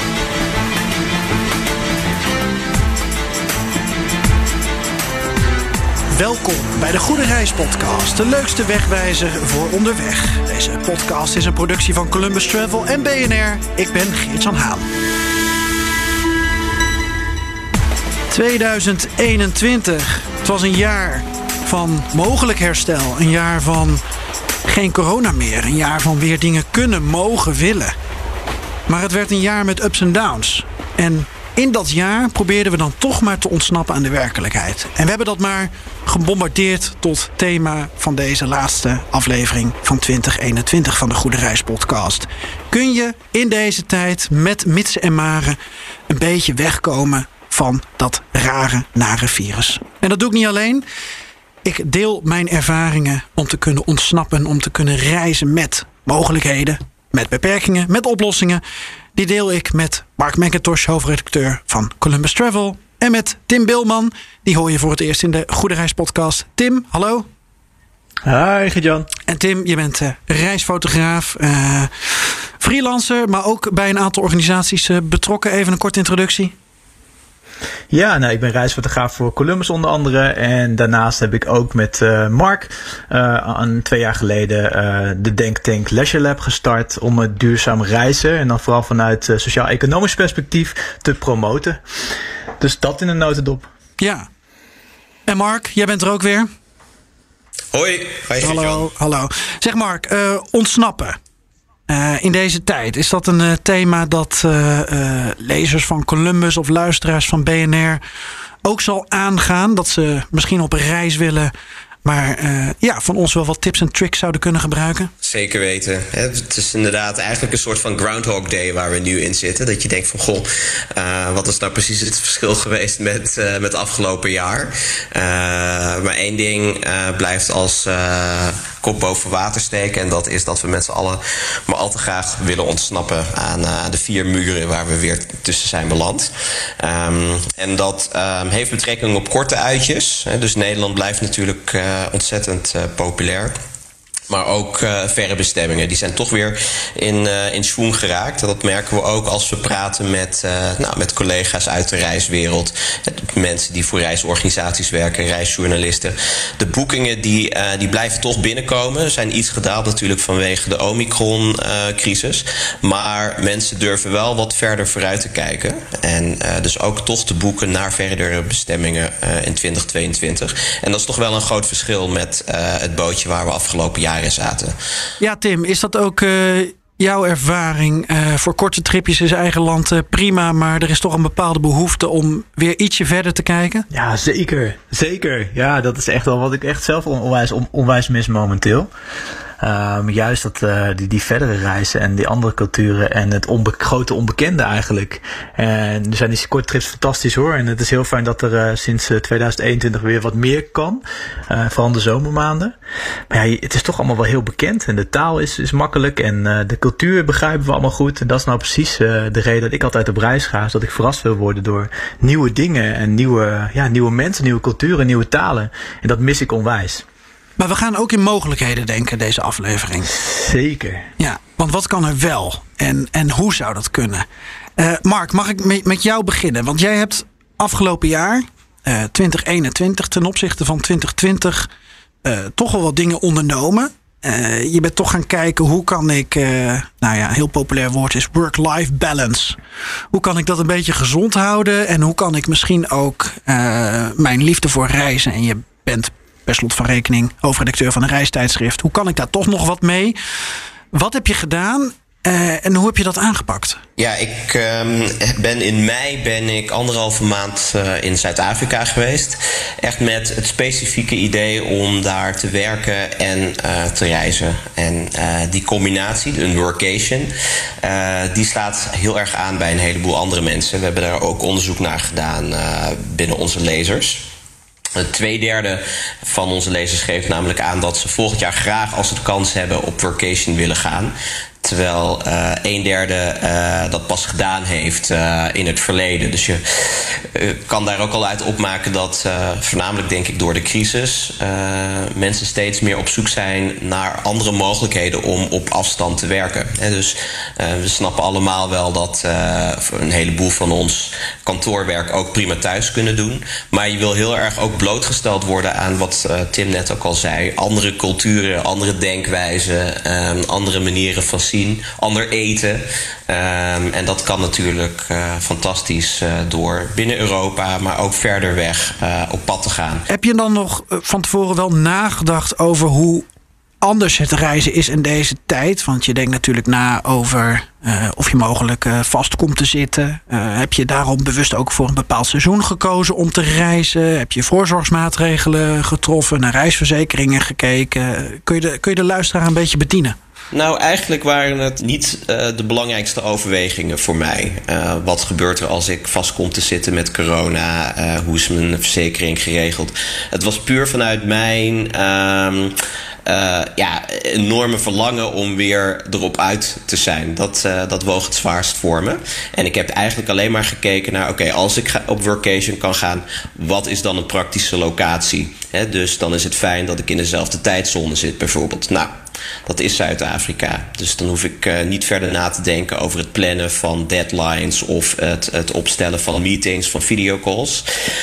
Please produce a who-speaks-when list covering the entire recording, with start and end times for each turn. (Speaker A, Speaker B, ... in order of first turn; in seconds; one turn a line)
Speaker A: 6.1-14.9
Speaker A: 18.3-24.0
Speaker A: 24.6-27.9
Speaker A: 28.9-50.9
Speaker A: 51.6-58.6
Speaker A: 59.1-67.3
Speaker B: 68.2-69.1
Speaker A: 69.3-76.5
Speaker B: 77.9-91.8
Speaker B: 92.6-93.7
Speaker A: 94.0-94.3
Speaker A: 95.3-96.5
Speaker C: 97.7-98.8
Speaker A: 98.4-101.2
Speaker A: 101.9-108.0
Speaker A: 108.6-111.5
Speaker A: 112.0-115.1
Speaker C: 115.2-143.5
Speaker C: 144.3-174.7
Speaker A: 175.2-183.8
Speaker B: 183.9-188.9
Speaker B: 189.6-202.8
Speaker B: 203.3-217.0
Speaker A: 217.6-220.1
Speaker B: 220.2-221.1
Speaker A: 221.2-231.7
Speaker A: 232.2-239.6
Speaker A: 240.1-250.2
Speaker A: 250.9-253.8
Speaker C: 254.0-267.3
Speaker C: 267.8-274.3
Speaker C: 274.9-320.1
Speaker A: 320.1-323.2
Speaker A: 323.8-340.1
Speaker C: 340.5-369.1
Speaker C: 369.6-377.9